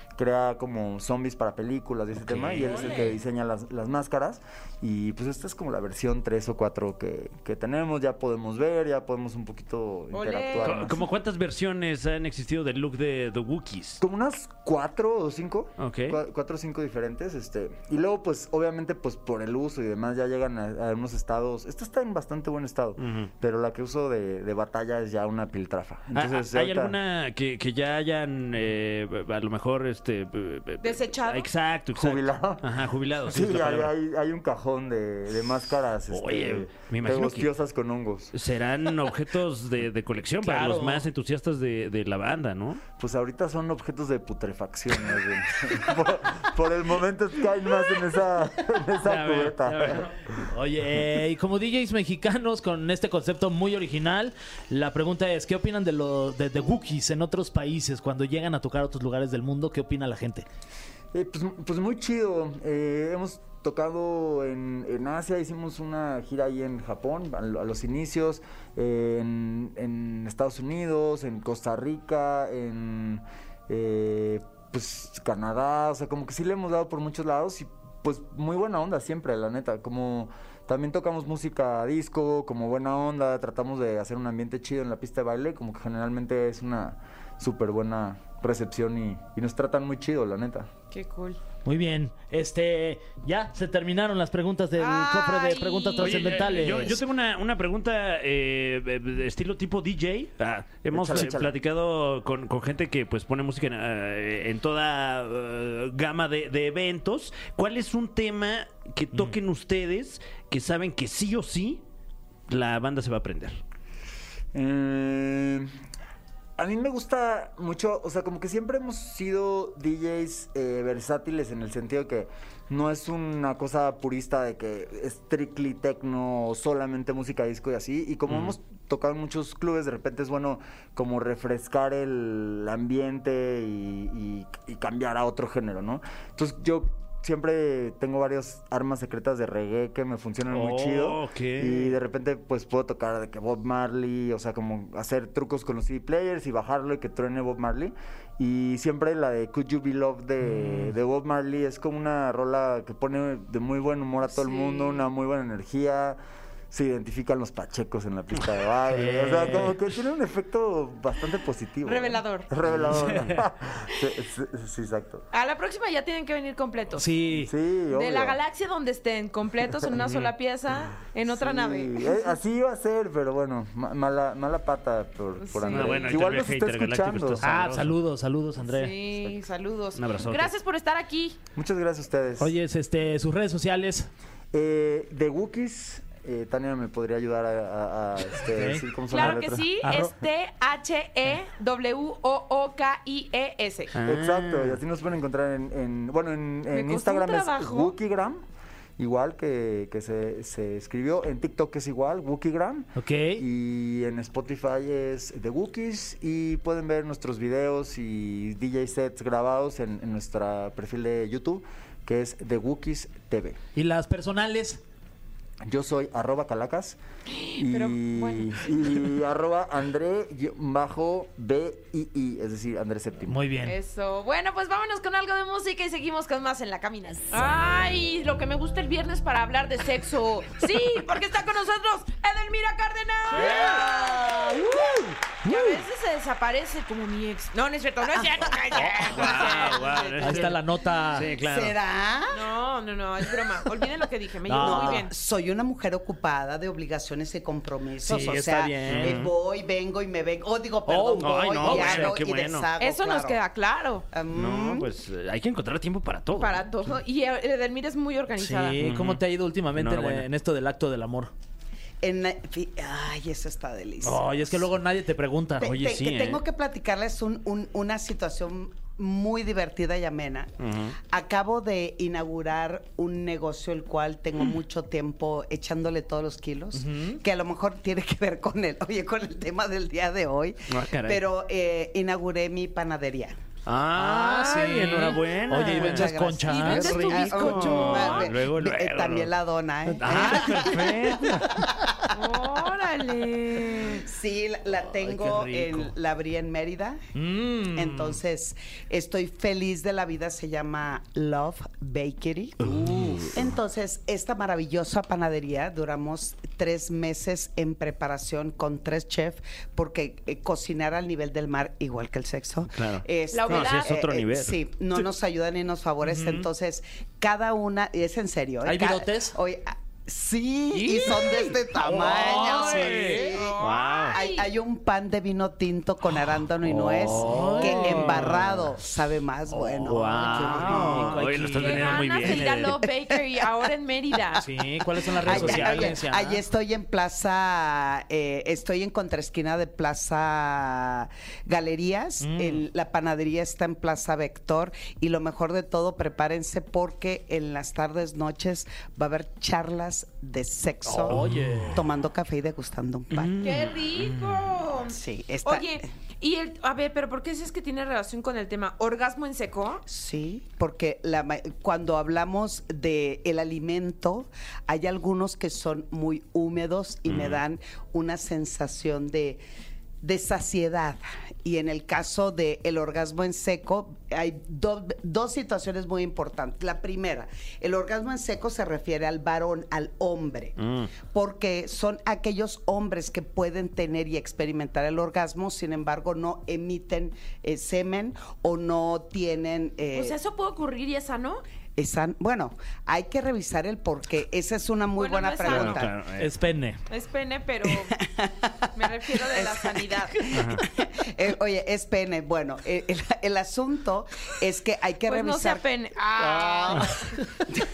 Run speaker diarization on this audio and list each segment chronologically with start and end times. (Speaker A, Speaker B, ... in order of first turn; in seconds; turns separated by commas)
Speaker A: 0.1-11.0, Speaker B: 2.2-3.1, Speaker C: 2.6-3.1, Speaker C: 10.1-10.9, Speaker B: 10.6-14.0, Speaker A: 14.0-27.0, Speaker B: 15.8-16.2, Speaker B: 23.0-23.3, Speaker B: 26.1-33.9, Speaker C: 30.8-31.5, Speaker A: 31.9-32.7, Speaker A: 33.3-38.3, Speaker B: 36.1-37.5, Speaker B: 38.3-42.8, Speaker D: 40.4-41.1, Speaker A: 43.0-50.1, Speaker B: 49.0-50.1, Speaker D: 50.5-60.5, Speaker A: 61.1-90.7, Speaker C: 90.9-91.4, Speaker D: 91.6-97.0, Speaker C: 94.8-96.8, Speaker B: 96.0-111.8, Speaker A: 100.9-101.6, Speaker B: 112.5-113.6, Speaker A: 114.5-115.7, Speaker A: 116.6-156.2, Speaker B: 128.3-128.6, Speaker B: 140.5-142.0, Speaker C: 154.2-155.0, Speaker A: 156.7-165.2, Speaker D: 158.9-159.8, Speaker C: 161.8-162.5, Speaker D: 162.8-163.4, Speaker B: 163.1-163.4, Speaker C: 165.3-167.1, Speaker D: 167.0-167.5, Speaker A: 167.3-168.4, Speaker C: 167.9-172.3, Speaker B: 169.9-170.3, Speaker A: 171.3-177.5, Speaker C: 175.4-176.2, Speaker B: 175.7-177.9, Speaker D: 177.4-178.9, Speaker C: 178.6-181.4, Speaker B: 179.9-180.6, Speaker A: 181.6-182.6, Speaker D: 182.4-184.1, Speaker A: 184.5-189.7, Speaker D: 188.5-190.1, Speaker C: 189.1-193.9, Speaker B: 193.9-194.8, Speaker A: 194.0-198.4, Speaker C: 196.7-197.9, Speaker A: 199.0-213.6, Speaker D: 203.0-203.4, Speaker D: 213.8-214.8, Speaker A: 215.6-217.0, Speaker C: 217.3-218.9, Speaker A: 217.6-223.4, Speaker D: 223.3-223.8, Speaker C: 223.6-240.2, Speaker D: 233.3-235.8, Speaker E: 238.1-240.6, Speaker B: 238.9-240.6, Speaker D: 240.2-241.3, Speaker E: 241.1-242.5, Speaker B: 241.1-241.8, Speaker C: 242.3-245.1, Speaker D: 244.5-245.1, Speaker E: 244.6-253.4, Speaker D: 248.0-249.2, Speaker B: 248.9-249.3, Speaker D: 250.9-252.1, Speaker B: 251.2-252.7, Speaker C: 252.8-254.1, Speaker E: 254.1-254.9, Speaker B: 254.3-256.7, Speaker C: 256.4-258.8, Speaker D: 258.4-261.3, Speaker B: 258.8-259.2, Speaker B: 259.8-260.3, Speaker E: 262.0-264.7, Speaker D: 264.0-265.7, Speaker E: 265.6-270.5, Speaker B: 265.6-266.4, Speaker B: 270.6-270.9, Speaker E: 271.1-283.4, Speaker D: 276.8-277.2, Speaker B: 280.7-281.2, Speaker B: 283.6-286.1, Speaker D: 283.9-287.1, Speaker E: 285.5-292.6, Speaker C: 286.5-288.3, Speaker B: 286.6-289.3, Speaker B: 289.9-291.6, Speaker D: 290.1-290.7, Speaker C: 292.1-294.0, Speaker E: 293.8-297.0, Speaker D: 295.0-295.9, Speaker D: 297.1-298.2, Speaker E: 297.7-331.2, Speaker D: 302.6-303.4, Speaker B: 302.8-303.3, Speaker B: 312.7-314.6, Speaker C: 313.3-314.0, Speaker D: 316.0-316.5, Speaker D: 318.6-319.4, Speaker D: 320.7-323.4, Speaker B: 322.1-324.2, Speaker C: 322.7-324.5, Speaker D: 326.7-328.7, Speaker B: 326.8-328.4, Speaker D: 329.5-332.0, Speaker B: 329.9-332.8, Speaker C: 331.6-334.4, Speaker D: 334.4-336.4, Speaker E: 334.9-353.4, Speaker B: 335.3-335.7, Speaker C: 335.5-335.8, Speaker D: 342.2-342.6, Speaker D: 350.9-351.8, Speaker B: 351.1-351.7, Speaker B: 353.1-354.5, Speaker C: 353.4-359.8, Speaker E: 354.9-355.8, Speaker E: 359.9-369.4, Speaker B: 367.1-367.4, Speaker E: 370.0-390.1, Speaker B: 380.6-380.9, Speaker C: 389.9-391.4, Speaker E: 391.8-395.9, Speaker C: 395.0-395.8, Speaker B: 395.4-396.3, Speaker D: 396.2-396.8, Speaker C: 396.9-398.0, Speaker E: 398.0-398.7, Speaker C: 398.8-400.3, Speaker E: 399.2-407.1, Speaker B: 400.3-400.6, Speaker C: 405.1-406.9